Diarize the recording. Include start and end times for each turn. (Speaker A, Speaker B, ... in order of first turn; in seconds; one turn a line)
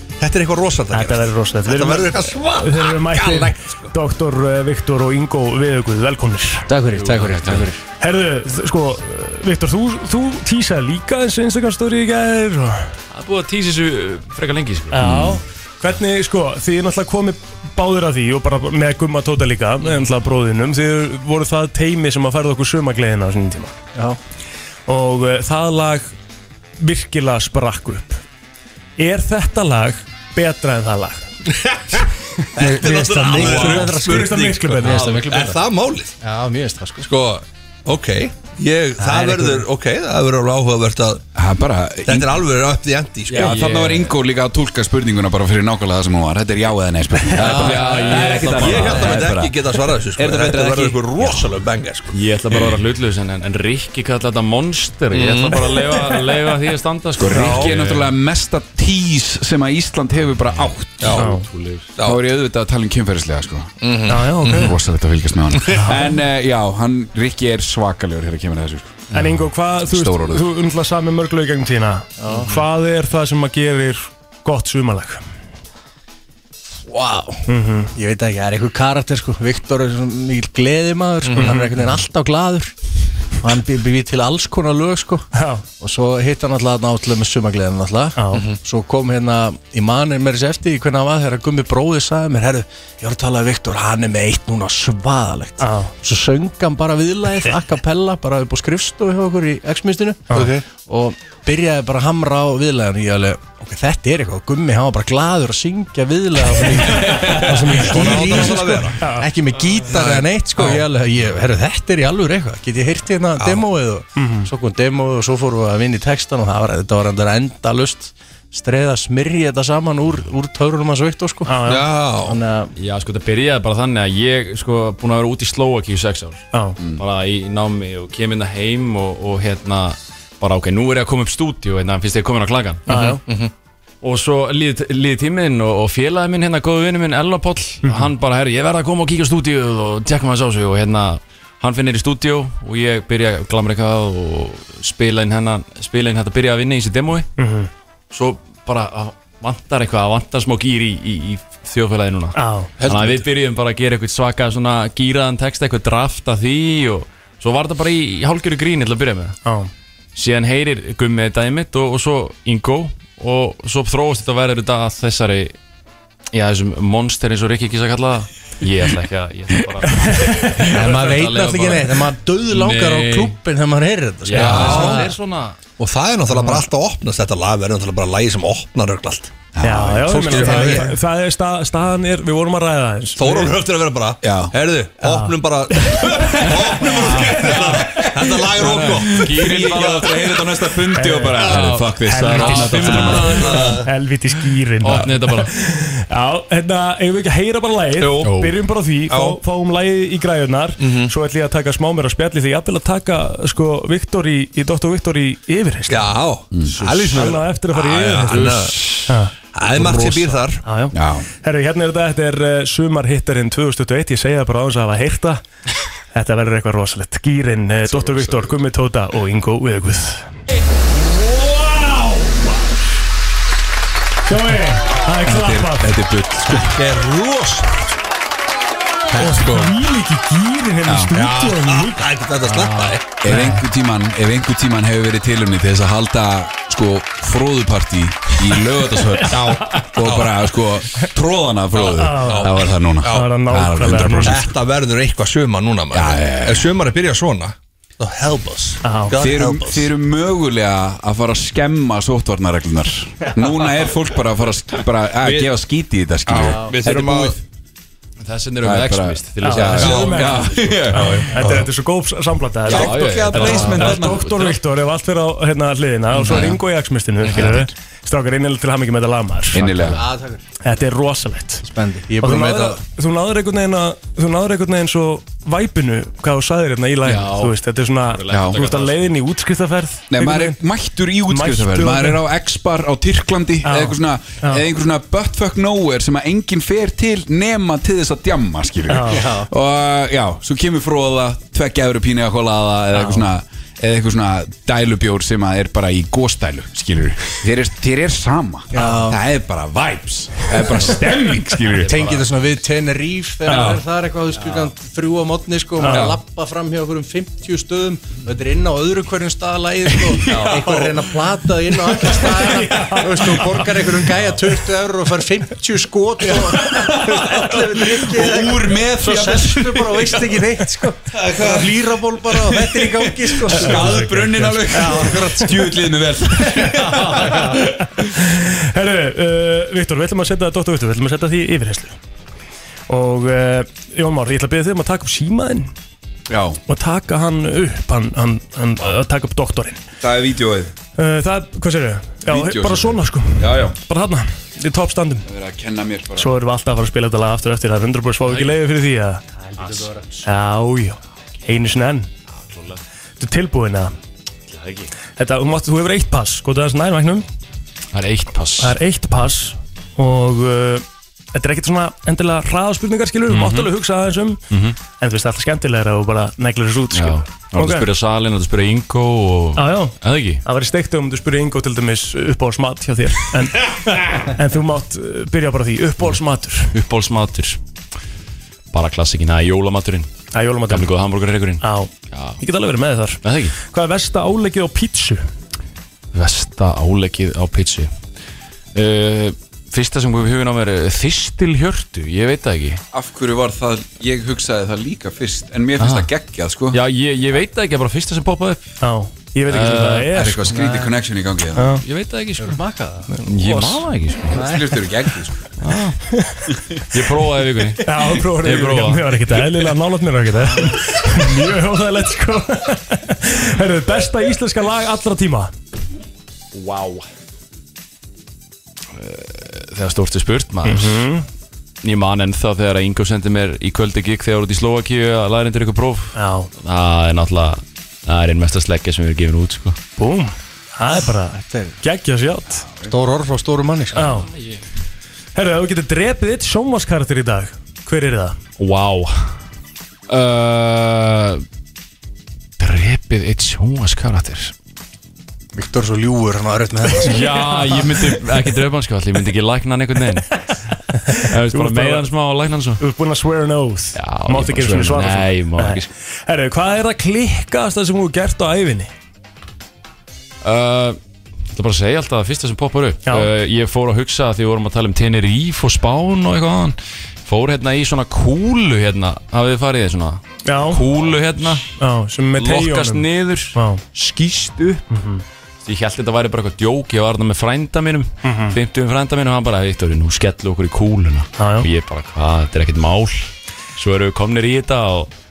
Speaker A: 0.2-3.9
Speaker B: 0.9-6.7
Speaker C: 6.7-7.8
Speaker D: 6.9-7.7
Speaker B: 8.0-12.9
Speaker D: 13.1-15.3
Speaker B: 14.9-23.8
Speaker E: 15.1-15.4
Speaker B: 24.9-26.1
Speaker B: 26.8-28.2
Speaker B: 29.0-31.2
Speaker A: 32.5-36.2
Speaker B: 32.6-35.0
Speaker C: 32.6-35.6
Speaker D: 34.9-35.3
Speaker C: 36.2-37.1
Speaker A: 37.0-41.2
Speaker B: 39.0-39.5
Speaker E: 41.3-42.4
Speaker A: 42.0-43.6
Speaker D: 43.3-44.2
Speaker E: 43.3-51.5
Speaker D: 47.3-49.2
Speaker A: 47.4-52.1
Speaker D: 52.1-58.1
Speaker A: 55.1-56.2
Speaker E: 57.1-61.3
Speaker A: 57.3-57.7
Speaker A: 61.0-61.3
Speaker B: 61.1-61.5
Speaker D: 61.2-61.9
Speaker E: 62.0-63.8
Speaker A: 63.8-64.7
Speaker B: 64.1-64.7
Speaker E: 64.4-69.1
Speaker A: 65.6-65.9
Speaker B: 69.1-75.2
Speaker E: 69.8-70.4
Speaker C: 72.2-72.5
Speaker C: 76.9-77.4
Speaker B: 77.5-77.9
Speaker C: 77.9-82.7
Speaker A: 81.2-81.6
Speaker B: 81.3-81.7
Speaker C: 83.4-85.3
Speaker B: 85.3-85.6
Speaker C: 85.8-121.5
Speaker B: 88.2-88.4
Speaker B: 95.6-95.9
Speaker A: 100.3-100.7
Speaker B: 106.9-109.3
Speaker A: 107.7-109.1
Speaker A: 109.9-110.3
Speaker A: 113.4-113.6
Speaker B: 114.2-114.5
Speaker B: 121.5-121.8
Speaker A: 121.6-122.4
Speaker C: 122.2-122.7
Speaker D: 122.8-132.9
Speaker B: 132.9-133.2
Speaker A: 133.2-133.5
Speaker D: 134.0-147.3
Speaker B: 137.8-138.1
Speaker B: 147.4-147.7
Speaker D: 148.1-159.4
Speaker B: 152.3-152.7
Speaker A: 152.8-153.1
Speaker B: 159.4-159.7
Speaker D: 160.1-165.5
Speaker D: 166.3-173.4
Speaker B: 169.9-170.5
Speaker C: 170.7-175.1
Speaker D: 174.2-175.6
Speaker A: 174.3-175.1
Speaker A: 175.8-179.3
Speaker E: 179.5-180.8
Speaker B: 179.6-183.5
Speaker A: 179.9-180.9
Speaker A: 183.2-190.4
Speaker E: 184.2-184.5
Speaker B: 185.0-185.3
Speaker B: 185.9-187.9
Speaker E: 186.8-193.7
Speaker D: 188.6-190.2
Speaker B: 190.9-191.4
Speaker D: 191.4-193.8
Speaker B: 192.0-206.1
Speaker A: 193.0-193.9
Speaker D: 194.8-195.5
Speaker A: 198.0-198.3
Speaker D: 198.2-198.5
Speaker A: 199.1-199.4
Speaker A: 200.8-201.1
Speaker A: 205.9-210.6
Speaker E: 206.5-206.8
Speaker D: 206.7-207.3
Speaker B: 207.1-209.3
Speaker D: 208.3-208.8
Speaker B: 210.6-215.4
Speaker E: 210.9-211.3
Speaker B: 216.1-220.2
Speaker E: 217.9-218.5
Speaker B: 224.2-225.9
Speaker E: 225.2-226.8
Speaker A: 226.5-228.0
Speaker A: 229.1-229.8
Speaker B: 229.1-233.7
Speaker E: 230.8-231.1
Speaker A: 231.1-233.0
Speaker E: 233.2-244.5
Speaker A: 239.3-240.4
Speaker A: 241.8-243.3
Speaker B: 241.9-244.5
Speaker A: 243.8-249.9
Speaker E: 245.9-246.7
Speaker B: 248.8-249.1
Speaker E: 249.1-257.4
Speaker A: 255.2-255.5
Speaker A: 256.3-257.4
Speaker D: 258.2-260.4
Speaker E: 258.6-261.6
Speaker B: 259.4-269.7
Speaker A: 259.8-261.6
Speaker E: 262.7-264.5
Speaker D: 262.7-264.5
Speaker A: 262.7-264.0
Speaker E: 266.2-266.6
Speaker E: 267.2-267.7
Speaker E: 269.5-270.1
Speaker C: 269.8-270.4
Speaker B: 270.6-271.6
Speaker C: 271.6-272.8
Speaker B: 272.2-280.6
Speaker D: 277.0-277.6
Speaker D: 278.1-279.0
Speaker E: 278.3-278.6
Speaker E: 280.1-302.2
Speaker B: 281.3-282.2
Speaker B: 283.6-284.6
Speaker B: 288.9-289.2
Speaker C: 289.1-289.5
Speaker C: 298.7-299.2
Speaker C: 301.9-325.6
Speaker B: 303.5-303.7
Speaker B: 305.8-306.1
Speaker E: 305.9-306.2
Speaker E: 310.2-310.9
Speaker B: 312.2-313.6
Speaker B: 316.6-317.0
Speaker E: 317.0-320.3
Speaker A: 321.1-321.7
Speaker E: 321.4-321.6
Speaker E: 322.3-327.9
Speaker B: 323.6-325.4
Speaker B: 326.4-331.9
Speaker C: 327.0-327.6
Speaker B: 332.9-335.7
Speaker E: 336.3-336.6
Speaker B: 336.7-339.8
Speaker E: 340.0-340.7
Speaker B: 341.0-345.2
Speaker E: 342.2-343.8
Speaker E: 345.2-346.4
Speaker B: 346.1-349.2
Speaker D: 348.3-348.6
Speaker C: 349.6-350.1
Speaker D: 349.6-349.9
Speaker B: 350.2-352.1
Speaker D: 352.4-352.8
Speaker B: 353.2-353.9
Speaker D: 354.5-354.9
Speaker B: 355.1-357.2
Speaker D: 357.9-358.8
Speaker B: 358.6-364.4
Speaker D: 363.3-363.7
Speaker D: 364.5-364.8
Speaker B: 365.0-367.9
Speaker D: 366.9-370.4
Speaker B: 369.6-376.7
Speaker D: 376.7-377.6
Speaker D: 378.7-380.1
Speaker B: 380.3-380.9
Speaker D: 380.7-382.4
Speaker B: 381.6-385.2
Speaker D: 383.2-383.6
Speaker D: 386.1-387.9
Speaker D: 388.7-392.8
Speaker E: 392.9-396.8
Speaker D: 395.8-396.1
Speaker D: 396.7-398.6
Speaker B: 398.8-400.5
Speaker D: 399.5-400.3
Speaker E: 400.1-401.8
Speaker C: 400.5-400.9
Speaker B: 401.6-401.8
Speaker D: 401.8-402.6
Speaker C: 402.4-403.1
Speaker D: 403.2-404.4
Speaker B: 403.4-403.8
Speaker C: 404.3-404.7
Speaker E: 404.3-405.4
Speaker D: 405.6-406.0
Speaker B: 406.1-406.5
Speaker D: 406.9-409.6
Speaker B: 407.8-415.5
Speaker D: 416.5-417.1
Speaker D: 418.9-421.1
Speaker B: 420.6-421.2
Speaker D: 421.8-429.8
Speaker B: 426.1-426.5
Speaker B: 430.0-432.6
Speaker C: 431.4-431.8
Speaker C: 432.8-434.0
Speaker B: 433.9-434.3
Speaker D: 433.9-434.6
Speaker B: 435.3-438.4
Speaker D: 438.6-439.4
Speaker D: 440.1-441.4
Speaker D: 442.6-444.5
Speaker C: 445.5-447.4
Speaker D: 447.0-450.4
Speaker B: 447.2-448.0
Speaker B: 450.9-452.1
Speaker D: 451.1-452.8
Speaker B: 452.8-458.9
Speaker D: 453.9-455.9
Speaker D: 460.4-461.0
Speaker D: 461.5-471.7
Speaker B: 470.4-470.8
Speaker B: 471.8-473.8
Speaker D: 472.4-474.8
Speaker B: 474.9-475.2
Speaker D: 475.6-485.1
Speaker B: 478.2-478.6
Speaker B: 481.4-481.6